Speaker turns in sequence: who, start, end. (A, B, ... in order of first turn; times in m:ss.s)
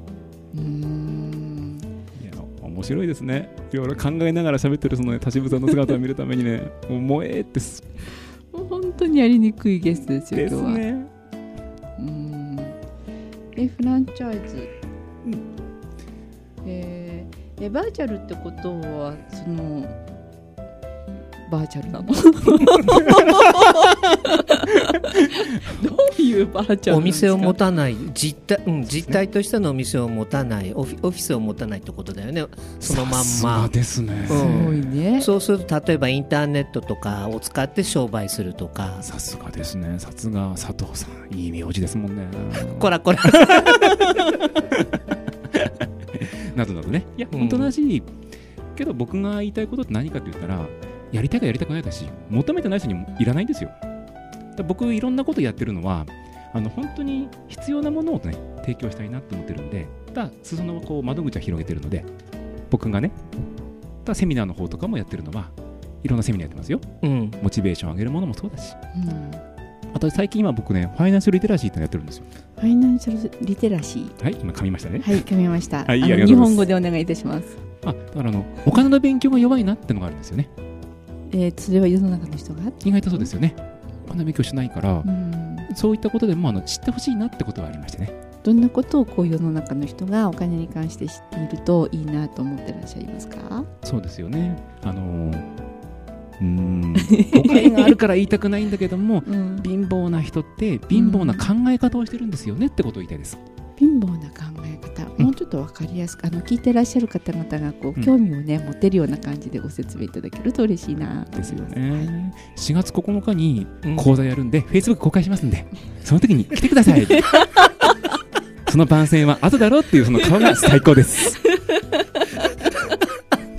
0:00.5-0:01.9 A
0:02.2-0:07.9 B
0:08.5-0:10.8 A
0:10.3-0:11.1 B
0:12.0-0:12.8 A
0:13.6-0:14.7 A
0:16.6-0:20.0 A
0:21.5-0:27.6 A
0:23.0-0:23.4 B
0:26.9-0:33.7 C
0:32.8-0:34.8 B
0:34.3-0:39.1 C
0:34.3-0:35.3 A
0:39.0-0:44.9 B
0:42.6-0:44.4 C
0:45.5-0:48.1 B
0:47.3-0:47.7 C
0:48.8-0:53.8 B
0:54.6-1:02.1 B
1:02.7-1:03.2 B
1:04.0-1:06.9 B
1:07.0-1:07.4 C
1:07.4-1:08.8 B
1:08.9-1:09.4 A
1:09.9-1:12.2 B
1:12.6-1:14.2 A
1:14.2-1:15.3 B
1:15.0-1:17.6 A
1:15.8-1:16.6 B
1:17.8-1:20.5 B
1:21.3-1:23.3 A
1:22.8-1:25.1 B
1:25.0-1:25.7 A
1:25.7-1:28.2 B
1:28.4-1:33.7 A
1:33.8-1:35.5 B
1:36.4-1:43.4 B
1:37.0-1:37.9 A
1:39.2-1:39.7 A
1:40.9-1:41.5 A
1:43.8-1:52.1 A
1:51.3-1:57.5 B
1:53.8-1:54.1 C
1:57.1-1:58.0 A
1:58.6-2:01.4 B
2:01.4-2:02.5 A